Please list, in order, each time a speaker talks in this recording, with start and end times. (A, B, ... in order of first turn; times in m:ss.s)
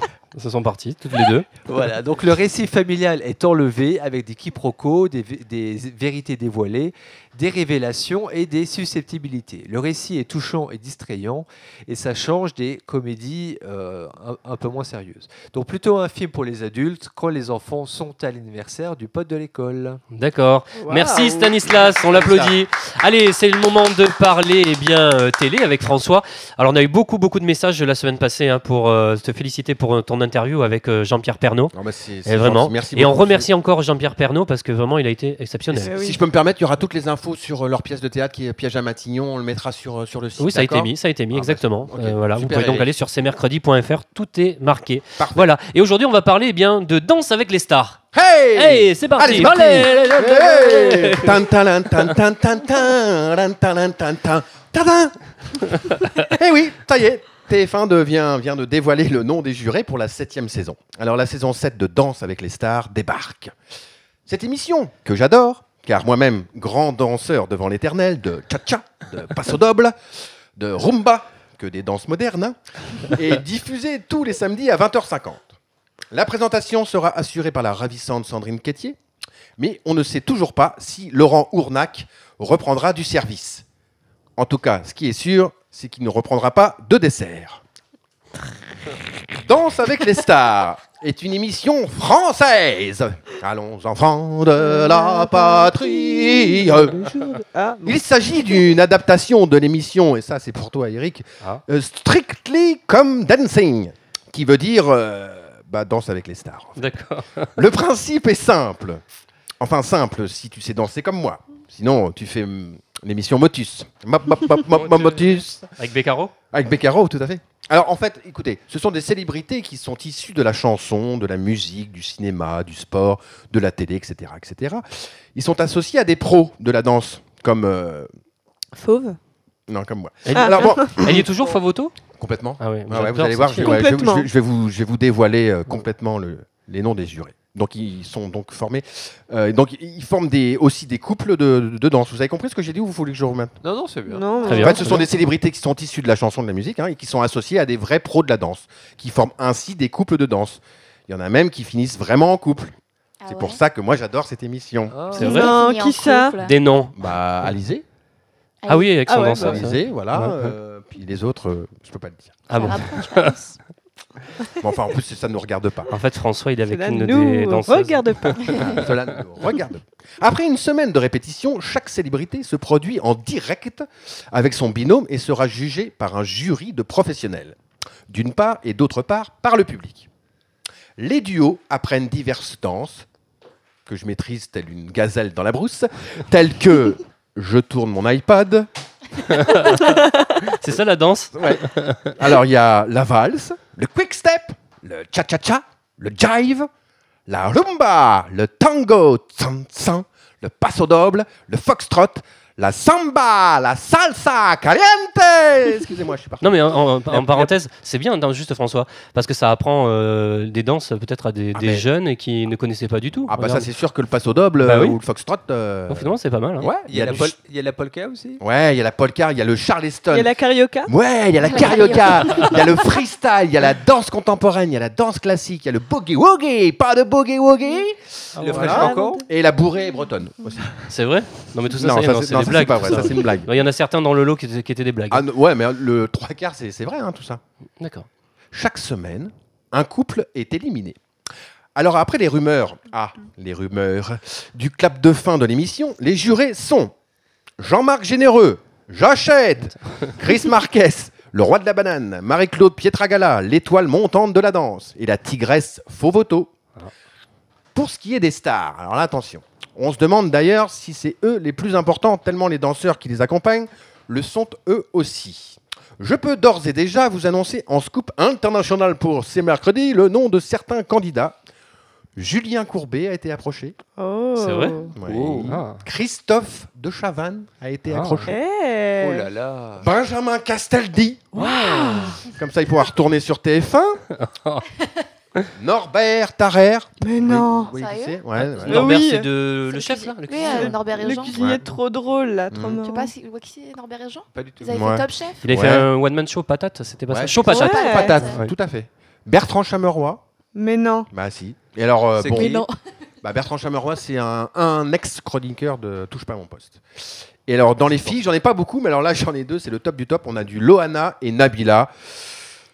0:00.3-0:01.5 A
0:01.6-0:20.0 B
0:20.1-0:31.7 A
0:20.8-0:21.5 C
0:22.1-0:22.5 D
0:31.7-0:33.5 D
0:32.2-0:35.9 A
0:35.7-0:42.9 D
0:35.8-0:36.2 C
0:40.4-0:48.0 A
0:45.2-0:45.5 D
0:48.1-1:03.5 D
0:48.5-0:51.4 A
1:04.3-1:10.0 D
1:10.6-1:15.6 D
1:16.1-1:19.0 D
1:19.6-1:23.6 D
1:24.4-1:27.6 D
1:29.4-1:37.1 D
1:34.6-1:38.0 C
1:37.8-1:46.8 D
1:46.8-1:47.5 A
1:47.6-1:49.0 D
1:49.6-1:55.7 D
1:54.7-1:56.3 A
1:56.5-2:08.1 D
2:08.7-2:09.2 C
2:09.7-2:11.3 D
2:10.2-2:11.9 A
2:10.3-2:10.9 C
2:12.2-2:23.6 D
2:12.6-2:13.8 A
2:13.6-2:14.3 C
2:23.6-2:24.9 B
2:24.1-2:25.0 C
2:24.4-2:25.0 A
2:24.5-2:32.7 D
2:33.2-2:33.6 E
2:33.3-2:34.9 D
2:34.9-2:35.5 B
2:35.1-2:35.5 A
2:35.2-2:36.5 E
2:35.2-2:36.4 C
2:36.4-2:36.9 A
2:37.0-2:37.8 D
2:38.6-2:38.9 E
2:38.7-2:40.5 A
2:39.0-2:39.6 C
2:39.4-2:42.8 D
2:42.5-2:43.3 A
2:42.6-2:43.6 E
2:44.6-2:45.9 D
2:45.9-2:48.9 A
2:46.6-2:48.7 C
2:48.6-2:57.6 D
2:58.1-3:00.1 D
3:01.0-3:03.0 D
3:03.8-3:08.7 D
3:09.3-3:12.1 A
3:11.3-3:16.7 D
3:17.3-3:26.7 D
3:26.4-3:33.7 A
3:31.5-3:31.8 D
3:33.3-3:37.3 D
3:34.6-3:35.0 A
3:35.9-3:36.7 A
3:36.8-3:38.4 B
3:38.4-3:40.3 D
3:40.1-3:40.9 C
3:40.8-3:48.0 D
3:41.4-3:42.5 E
3:48.4-3:48.8 A
3:48.4-3:49.2 B
3:48.5-3:50.8 D
3:48.5-3:49.2 C
3:50.9-3:55.2 A
3:51.7-3:53.5 D
3:55.1-3:57.4 D
3:57.8-3:58.1 A
3:58.5-4:01.0 D
4:01.7-4:06.9 D
4:07.6-4:16.5 D
4:17.7-4:31.4 D
4:32.2-4:33.8 D
4:34.0-4:34.9 C
4:34.4-4:34.8 A
4:35.0-4:38.3 D
4:35.0-4:35.6 B
4:35.5-4:35.8 A
4:37.9-4:38.3 A
4:38.3-4:39.3 C
4:39.0-4:39.9 B
4:39.8-4:41.3 D
4:41.4-4:42.2 C
4:41.4-4:42.2 A
4:42.3-4:44.0 D
4:44.1-4:44.7 A
4:45.6-4:49.0 D
4:47.0-4:47.7 C
4:47.7-4:48.2 E
4:48.4-4:50.8 A
4:48.6-4:49.3 C
4:49.7-4:51.3 E
4:50.3-4:53.1 C
4:51.3-4:51.7 D
4:52.5-4:52.8 D
4:52.8-4:55.4 E
4:54.3-4:54.8 B
4:54.7-4:55.9 D
4:55.4-4:58.5 A
4:57.1-5:00.2 D
4:57.4-4:58.4 E
4:57.5-4:58.2 C
5:00.5-5:01.1 C
5:01.1-5:02.6 D
5:02.2-5:02.6 B
5:02.3-5:02.7 E
5:03.2-5:11.9 D